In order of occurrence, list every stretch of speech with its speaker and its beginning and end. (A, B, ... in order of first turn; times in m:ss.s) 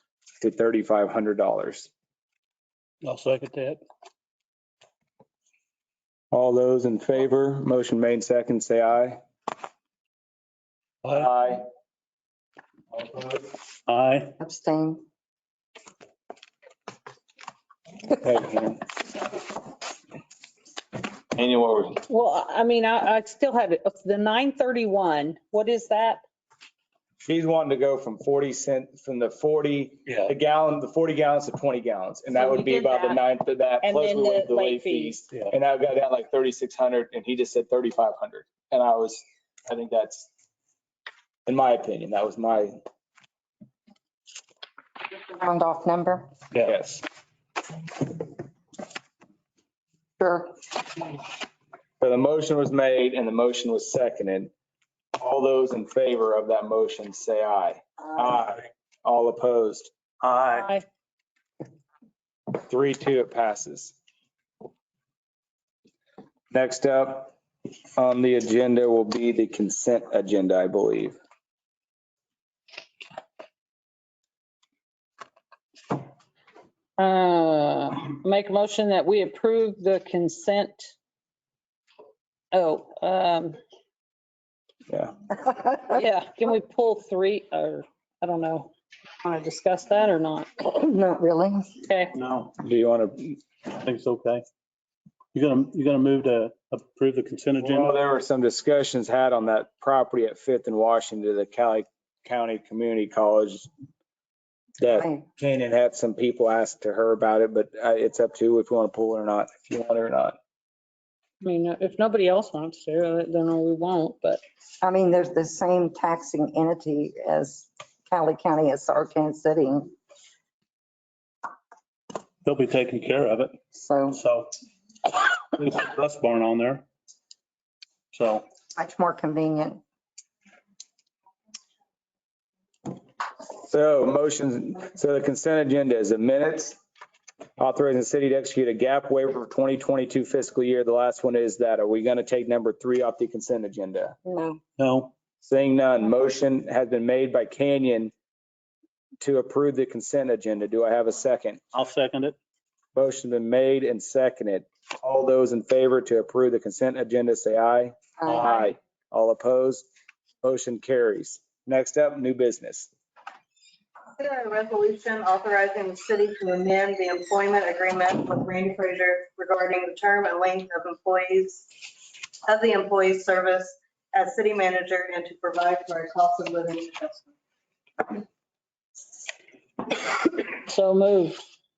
0:00.4-0:01.9 A
0:03.0-0:03.8 B
0:06.3-0:09.2 A
0:11.0-0:11.3 B
0:11.1-0:11.6 A
0:13.9-0:14.3 B
0:14.4-0:15.0 C
0:18.2-0:18.8 A
0:21.3-0:22.0 A
0:22.1-0:26.2 D
0:27.2-0:40.3 A
0:30.1-0:30.3 B
0:32.3-0:33.2 D
0:33.8-0:35.2 D
0:41.5-0:42.8 A
0:45.1-0:46.3 C
0:46.6-0:47.0 A
0:50.2-0:50.6 C
0:52.0-0:54.5 A
0:55.2-0:59.9 A
1:00.2-1:00.7 B
1:00.5-1:00.8 D
1:02.5-1:04.0 A
1:06.5-1:07.3 A
1:08.0-1:11.2 A
1:17.0-1:20.9 D
1:22.5-1:23.6 D
1:24.9-1:25.1 A
1:25.4-1:26.0 C
1:25.9-1:28.7 D
1:29.2-1:30.5 D
1:30.6-1:31.7 C
1:31.9-1:32.1 D
1:32.2-1:32.5 B
1:32.6-1:33.4 A
1:33.7-1:34.4 B
1:35.3-1:38.0 B
1:37.6-1:43.7 A
1:44.8-1:50.4 A
1:44.9-1:45.2 C
1:51.4-1:54.4 D
1:54.8-1:59.9 C
2:02.4-2:03.6 B
2:03.7-2:04.2 C
2:04.1-2:04.5 B
2:05.5-2:06.8 B
2:08.1-2:08.4 B
2:08.8-2:09.8 C
2:13.6-2:16.8 A
2:17.6-2:24.2 A
2:24.2-2:24.6 C
2:24.8-2:25.1 B
2:25.4-2:28.1 A
2:29.2-2:31.6 A
2:31.7-2:32.4 B
2:33.0-2:39.9 A
2:38.2-2:38.5 C
2:40.4-2:42.9 A
2:44.2-2:51.9 E
2:52.5-2:57.3 E
3:00.5-3:01.4 D